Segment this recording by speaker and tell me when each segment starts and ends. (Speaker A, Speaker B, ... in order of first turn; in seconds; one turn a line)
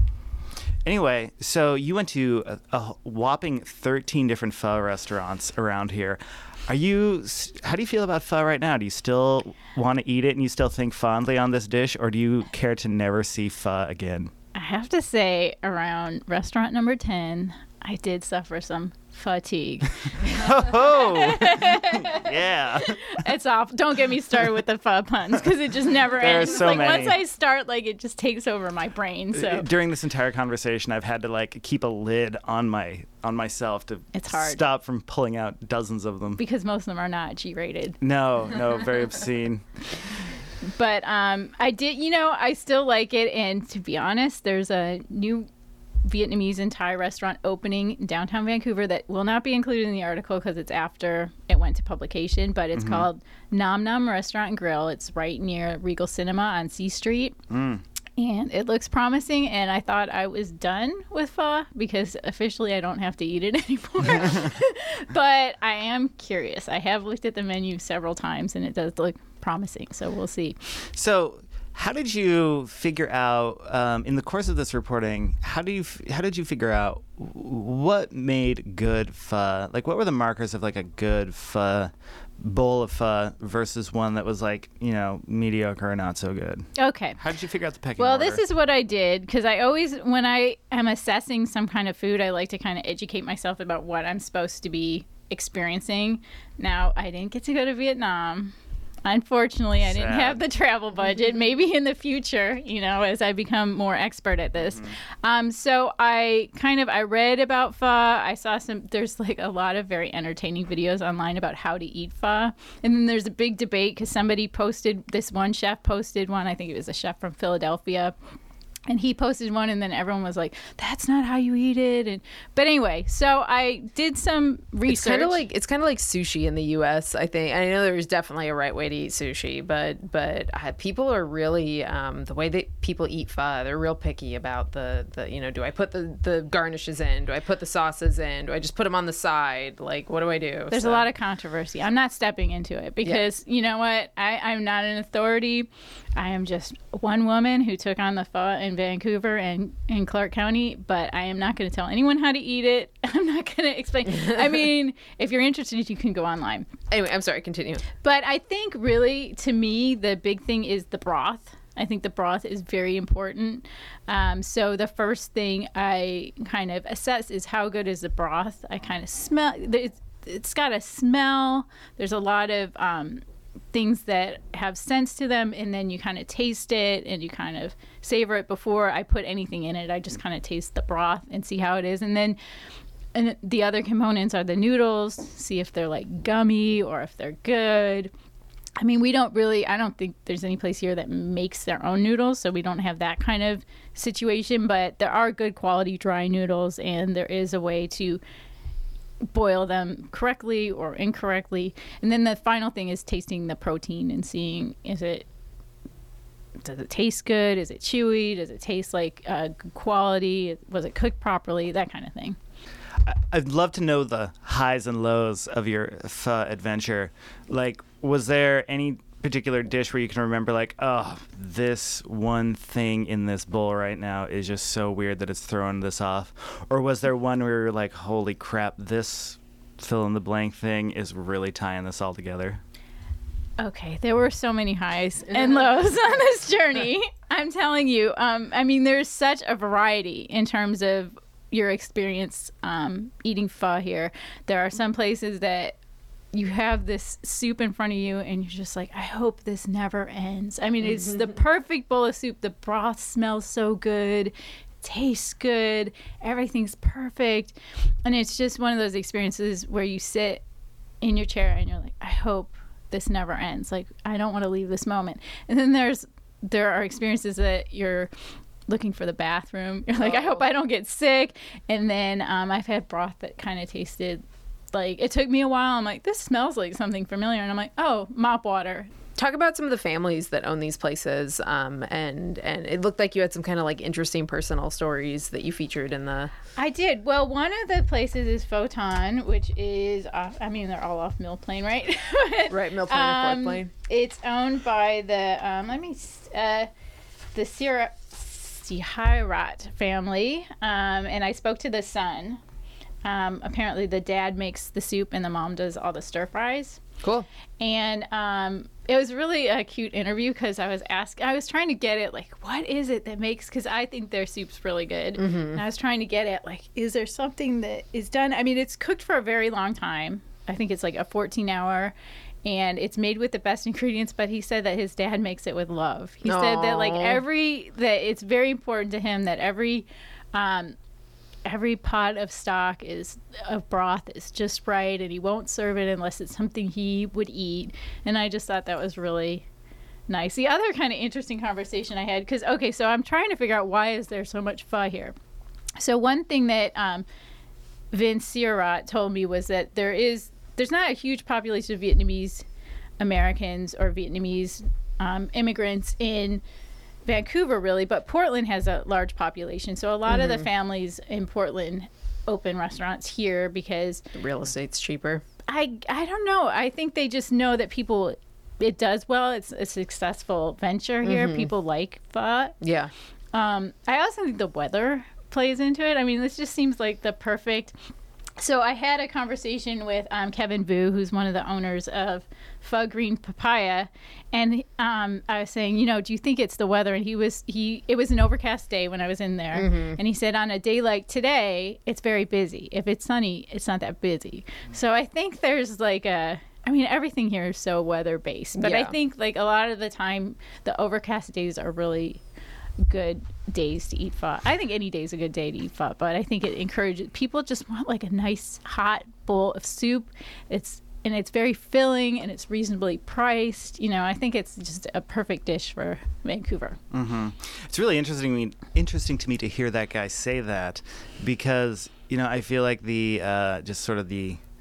Speaker A: 0.8-14.3
Speaker B: 14.6-22.3
Speaker A: 20.2-23.2
Speaker B: 22.9-29.7
Speaker A: 26.2-27.2
Speaker A: 29.3-36.4
Speaker B: 34.1-34.6
Speaker B: 36.4-38.0
Speaker A: 38.0-39.6
Speaker B: 40.8-45.5
Speaker B: 46.0-57.4
Speaker A: 52.8-53.1
Speaker A: 57.5-57.8
Speaker B: 58.2-70.6
Speaker A: 70.9-88.4
Speaker B: 86.8-87.2
Speaker B: 88.0-98.5
Speaker B: 99.0-118.2
Speaker A: 99.8-100.4
Speaker B: 118.9-125.4
Speaker C: 124.9-141.1
Speaker B: 140.7-156.7
Speaker C: 156.9-157.8
Speaker B: 158.0-173.2
Speaker B: 173.7-182.4
Speaker B: 183.2-188.1
Speaker B: 188.8-198.2
Speaker B: 199.3-205.3
Speaker B: 206.6-212.4
Speaker A: 213.0-232.6
Speaker B: 233.6-245.8
Speaker B: 246.3-260.4
Speaker B: 261.0-268.1
Speaker B: 268.7-278.9
Speaker C: 270.0-270.4
Speaker C: 279.2-286.3
Speaker B: 286.6-296.7
Speaker C: 292.5-293.7
Speaker B: 297.3-302.4
Speaker B: 303.0-306.8
Speaker B: 307.6-321.9
Speaker C: 315.2-315.6
Speaker B: 322.4-330.8
Speaker C: 326.2-327.2
Speaker B: 331.4-339.5
Speaker B: 340.1-345.1
Speaker B: 345.8-347.1
Speaker B: 347.9-352.4
Speaker B: 353.0-356.4
Speaker B: 357.1-364.1
Speaker C: 360.1-360.4
Speaker C: 364.1-365.2
Speaker B: 365.5-372.6
Speaker C: 371.0-371.5
Speaker C: 372.6-372.9
Speaker B: 373.3-377.8
Speaker B: 378.4-402.2
Speaker C: 389.5-390.0
Speaker C: 398.6-398.9
Speaker B: 402.9-416.8
Speaker A: 416.9-424.4